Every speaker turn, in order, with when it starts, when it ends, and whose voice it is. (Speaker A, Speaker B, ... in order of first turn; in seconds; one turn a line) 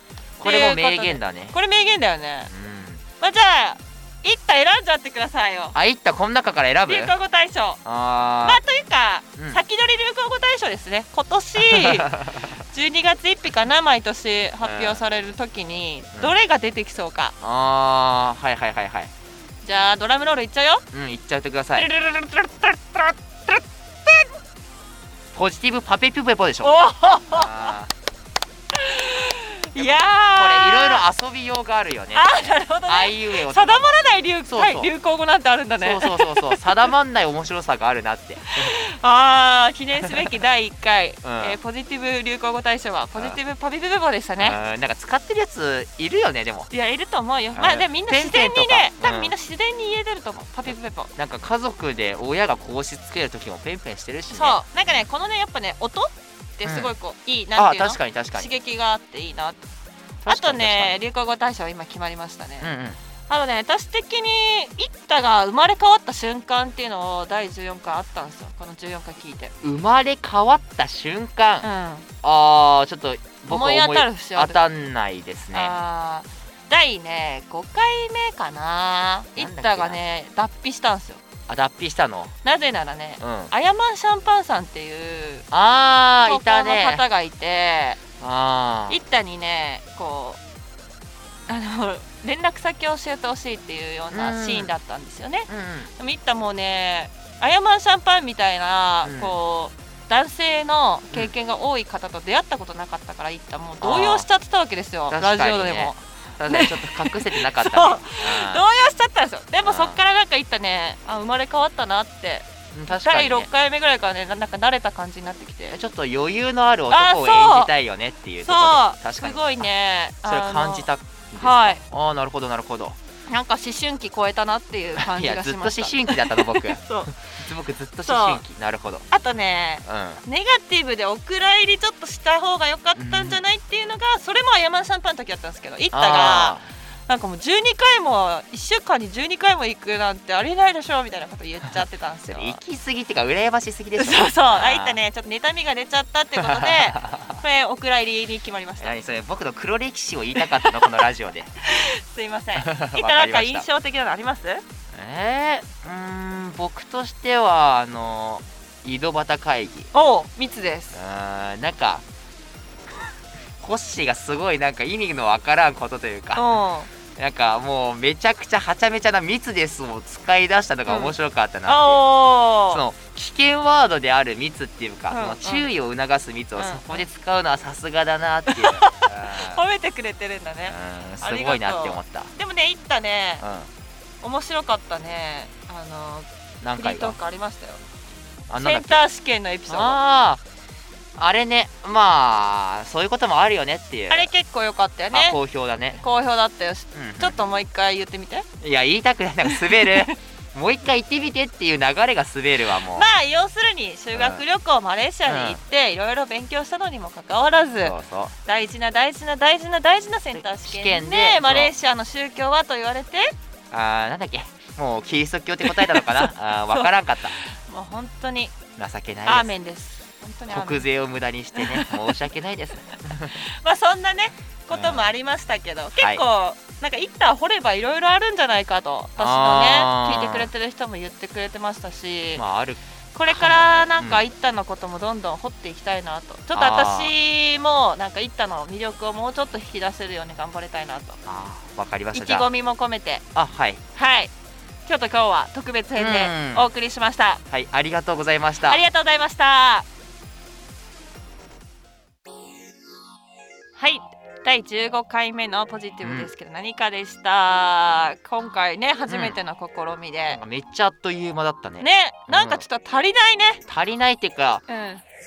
Speaker A: 0.4-1.6
Speaker B: 0.4-2.5
Speaker A: 2.5-3.0
Speaker B: 3.2-5.8
Speaker A: 5.7-7.1
Speaker B: 6.9-7.8
Speaker A: 7.8-8.6
Speaker B: 8.4-17.3
Speaker A: 9.4-9.6
Speaker A: 11.6-12.5
Speaker A: 14.6-15.0
Speaker A: 16.1-16.4
Speaker A: 17.4-19.1
Speaker B: 19.6-20.9
Speaker A: 20.9-21.9
Speaker B: 21.8-24.3
Speaker A: 25.4-27.9
Speaker B: 26.6-27.8
Speaker B: 28.7-31.0
Speaker A: 29.8-34.9
Speaker B: 32.1-36.7
Speaker A: 35.8-38.7
Speaker B: 38.5-44.6
Speaker A: 41.2-41.6
Speaker A: 44.4-46.7
Speaker B: 46.7-51.1
Speaker A: 47.5-49.3
Speaker A: 51.2-54.6
Speaker B: 54.3-59.6
Speaker A: 56.6-56.9
Speaker A: 57.6-58.5
Speaker A: 60.2-61.0
Speaker B: 60.3-62.7
Speaker A: 62.6-63.0
Speaker B: 63.3-69.5
Speaker A: 69.6-71.7
Speaker B: 71.6-72.1
Speaker A: 72.2-75.8
Speaker B: 73.5-74.6
Speaker B: 75.5-81.2
Speaker A: 79.4-80.0
Speaker A: 81.5-82.3
Speaker B: 82.4-85.5
Speaker A: 83.2-83.5
Speaker A: 85.5-87.0
Speaker B: 86.3-88.0
Speaker A: 88.2-89.0
Speaker B: 88.9-90.4
Speaker B: 91.5-115.8
Speaker A: 94.1-94.7
Speaker A: 95.5-95.9
Speaker A: 99.0-99.4
Speaker A: 103.8-104.3
Speaker A: 105.1-108.7
Speaker A: 109.6-110.0
Speaker A: 112.7-113.5
Speaker A: 115.7-119.7
Speaker B: 116.9-117.7
Speaker B: 118.4-121.8
Speaker A: 120.2-123.0
Speaker B: 123.3-127.1
Speaker A: 125.0-129.1
Speaker B: 128.0-128.4
Speaker B: 129.1-142.6
Speaker A: 129.8-130.2
Speaker A: 133.0-133.4
Speaker A: 135.9-136.7
Speaker A: 142.3-145.0
Speaker B: 144.0-149.0
Speaker A: 146.4-147.3
Speaker A: 148.8-151.5
Speaker B: 150.4-150.8
Speaker B: 151.6-154.6
Speaker A: 152.6-153.7
Speaker A: 154.9-159.9
Speaker B: 159.9-161.0
Speaker A: 160.9-162.0
Speaker A: 163.6-166.6
Speaker B: 166.3-166.9
Speaker A: 167.2-172.1
Speaker B: 170.9-171.2
Speaker B: 171.7-172.8
Speaker A: 172.7-179.6
Speaker B: 175.1-175.7
Speaker B: 176.6-177.1
Speaker B: 178.5-183.4
Speaker A: 180.7-182.3
Speaker A: 183.4-183.7
Speaker B: 184.2-187.8
Speaker A: 186.6-187.2
Speaker A: 188.5-189.0
Speaker B: 188.6-190.0
Speaker A: 189.7-190.4
Speaker A: 191.2-194.3
Speaker B: 194.1-195.4
Speaker A: 195.1-196.0
Speaker B: 195.9-198.5
Speaker A: 196.9-197.4
Speaker A: 198.6-203.1
Speaker B: 199.4-200.1
Speaker B: 202.9-213.3
Speaker A: 204.1-204.4
Speaker A: 205.3-205.6
Speaker A: 207.8-208.3
Speaker A: 210.3-211.7
Speaker A: 213.7-217.3
Speaker B: 215.6-218.6
Speaker A: 218.8-219.5
Speaker B: 219.3-220.9
Speaker A: 220.5-223.4
Speaker B: 221.6-222.2
Speaker B: 223.3-232.4
Speaker A: 224.7-225.1
Speaker A: 226.0-226.2
Speaker A: 229.2-230.5
Speaker A: 232.3-234.2
Speaker B: 233.2-241.2
Speaker A: 236.5-237.1
Speaker A: 241.3-242.5
Speaker B: 242.1-243.2
Speaker A: 243.3-243.8
Speaker B: 243.9-244.3
Speaker B: 244.9-247.4
Speaker A: 246.0-246.7
Speaker A: 247.5-248.8
Speaker B: 248.7-249.9
Speaker B: 253.8-260.4
Speaker A: 256.0-256.3
Speaker A: 259.1-259.4
Speaker A: 260.3-262.7
Speaker B: 261.8-263.6
Speaker A: 263.7-264.6
Speaker B: 264.7-265.0